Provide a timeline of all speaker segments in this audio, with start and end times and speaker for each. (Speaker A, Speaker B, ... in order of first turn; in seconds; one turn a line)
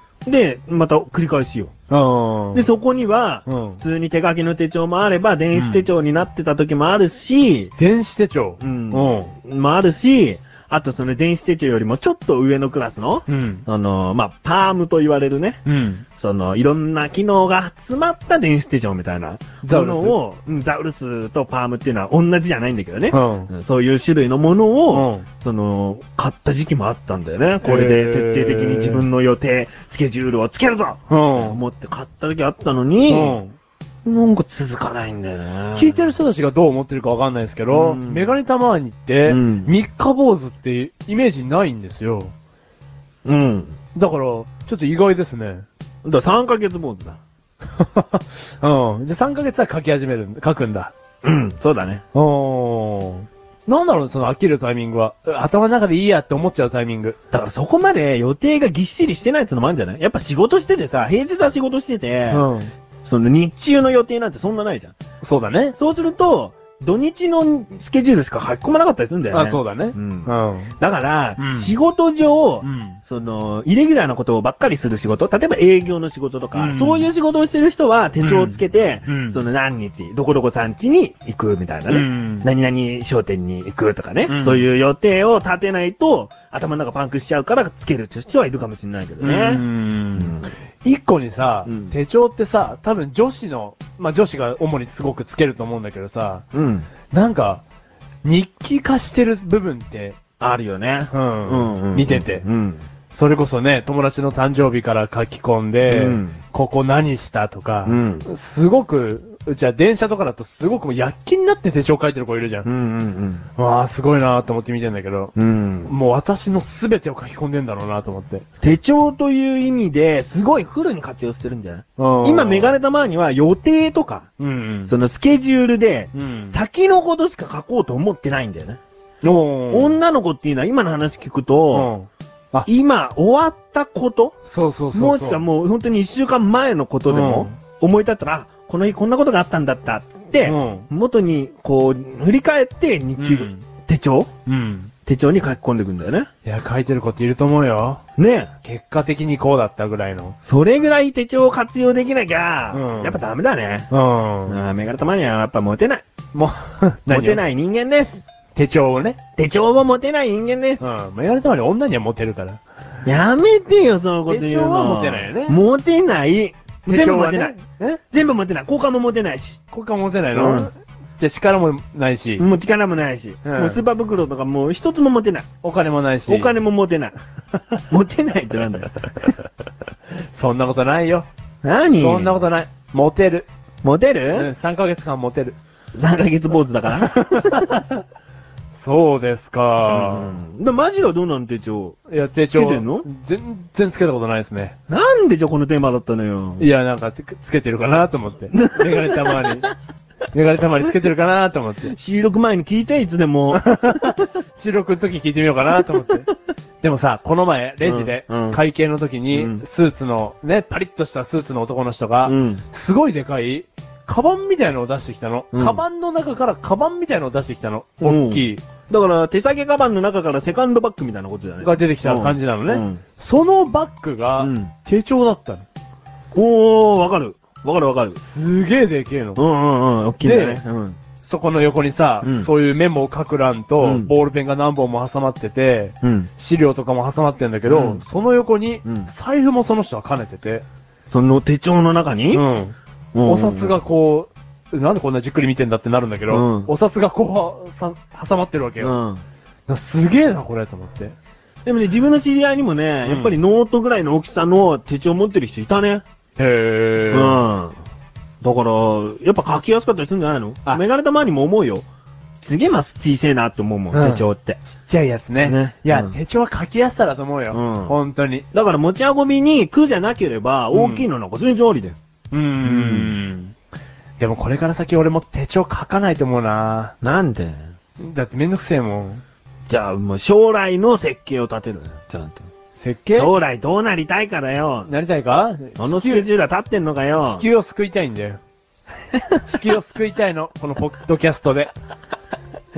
Speaker A: 0.2-1.7
Speaker B: 1.9-2.7
Speaker A: 2.5-7.7
Speaker B: 3.5-3.8
Speaker B: 5.5-5.8
Speaker B: 7.8-9.3
Speaker A: 8.6-15.6
Speaker B: 13.3-13.6
Speaker B: 15.6-16.0
Speaker A: 16.2-33.4
Speaker B: 19.6-20.2
Speaker B: 23.1-23.5
Speaker B: 24.9-25.2
Speaker B: 27.6-29.0
Speaker B: 31.1-31.6
Speaker B: 33.1-33.5
Speaker A: 34.0-36.1
Speaker B: 35.7-42.3
Speaker A: 37.7-38.4
Speaker A: 39.2-39.7
Speaker A: 43.2-43.8
Speaker B: 43.9-45.6
Speaker A: 46.0-47.2
Speaker B: 47.8-50.9
Speaker A: 51.2-52.0
Speaker B: 52.1-57.2
Speaker A: 57.3-62.5
Speaker B: 62.3-62.7
Speaker A: 63.0-64.9
Speaker B: 65.2-65.7
Speaker A: 65.8-90.5
Speaker B: 69.3-70.7
Speaker B: 71.4-71.7
Speaker B: 72.6-73.0
Speaker B: 76.5-77.1
Speaker B: 78.2-79.4
Speaker B: 81.9-82.5
Speaker B: 84.2-84.6
Speaker B: 89.2-96.4
Speaker A: 91.7-91.9
Speaker A: 96.5-96.9
Speaker B: 97.1-97.6
Speaker B: 98.2-100.2
Speaker A: 100.4-102.8
Speaker B: 101.1-102.4
Speaker B: 103.1-112.7
Speaker A: 105.9-106.4
Speaker A: 107.8-108.2
Speaker A: 112.6-113.5
Speaker B: 113.6-115.3
Speaker A: 115.3-115.9
Speaker B: 115.8-118.4
Speaker A: 118.6-124.3
Speaker B: 122.0-122.8
Speaker B: 124.4-124.9
Speaker A: 124.8-128.8
Speaker B: 126.1-126.6
Speaker B: 129.2-130.0
Speaker A: 129.7-131.9
Speaker B: 131.7-132.7
Speaker A: 132.7-134.3
Speaker B: 134.4-135.4
Speaker A: 134.9-144.3
Speaker B: 137.1-137.5
Speaker B: 140.4-140.9
Speaker B: 143.2-143.6
Speaker B: 144.4-144.9
Speaker A: 145.1-146.3
Speaker B: 146.4-148.0
Speaker A: 148.2-148.5
Speaker B: 148.6-150.3
Speaker A: 150.4-153.9
Speaker B: 152.7-153.2
Speaker B: 153.9-154.7
Speaker A: 154.5-156.0
Speaker B: 156.3-157.4
Speaker A: 157.1-158.2
Speaker B: 158.5-159.2
Speaker A: 159.4-160.9
Speaker B: 160.8-162.6
Speaker A: 163.1-167.6
Speaker B: 164.3-165.6
Speaker B: 166.9-168.0
Speaker A: 168.1-169.6
Speaker B: 169.7-172.4
Speaker A: 170.3-170.7
Speaker A: 172.4-175.5
Speaker B: 173.4-173.8
Speaker B: 175.6-176.5
Speaker A: 176.3-177.2
Speaker A: 177.9-178.9
Speaker B: 180.3-181.3
Speaker A: 181.6-182.4
Speaker B: 182.0-183.5
Speaker A: 183.8-184.5
Speaker B: 184.3-185.6
Speaker A: 185.9-187.7
Speaker B: 186.9-188.0
Speaker B: 188.7-190.4
Speaker A: 189.9-192.0
Speaker B: 192.1-194.8
Speaker A: 192.5-193.1
Speaker A: 194.9-196.7
Speaker B: 196.6-199.7
Speaker A: 198.5-199.7
Speaker B: 200.3-201.9
Speaker A: 201.8-204.2
Speaker B: 203.5-206.3
Speaker B: 206.8-218.6
Speaker A: 207.8-208.6
Speaker A: 209.3-209.6
Speaker A: 212.2-212.6
Speaker A: 215.5-215.8
Speaker A: 218.0-223.0
Speaker B: 221.6-225.7
Speaker A: 224.4-224.7
Speaker A: 226.3-228.2
Speaker B: 228.2-229.4
Speaker A: 229.3-231.0
Speaker B: 230.2-230.6
Speaker B: 231.2-240.6
Speaker A: 232.2-232.5
Speaker A: 233.8-234.1
Speaker A: 236.0-236.3
Speaker A: 237.7-238.0
Speaker A: 238.8-239.1
Speaker A: 241.1-242.4
Speaker B: 242.3-248.9
Speaker A: 243.1-243.8
Speaker A: 246.3-246.7
Speaker A: 248.8-249.2
Speaker B: 249.7-251.2
Speaker A: 251.6-256.0
Speaker B: 253.0-253.3
Speaker B: 256.4-257.4
Speaker A: 257.1-257.8
Speaker A: 258.4-261.9
Speaker A: 262.4-264.6
Speaker B: 263.9-268.4
Speaker A: 265.4-266.1
Speaker A: 267.5-267.9
Speaker A: 268.5-272.0
Speaker B: 270.7-271.1
Speaker B: 272.3-273.5
Speaker A: 272.6-273.1
Speaker B: 274.2-276.9
Speaker A: 277.0-277.6
Speaker B: 278.0-279.2
Speaker A: 279.7-282.4
Speaker B: 282.8-283.3
Speaker A: 283.1-284.9
Speaker B: 284.9-286.3
Speaker A: 285.8-287.4
Speaker B: 287.2-288.4
Speaker A: 289.2-289.6
Speaker B: 289.4-291.7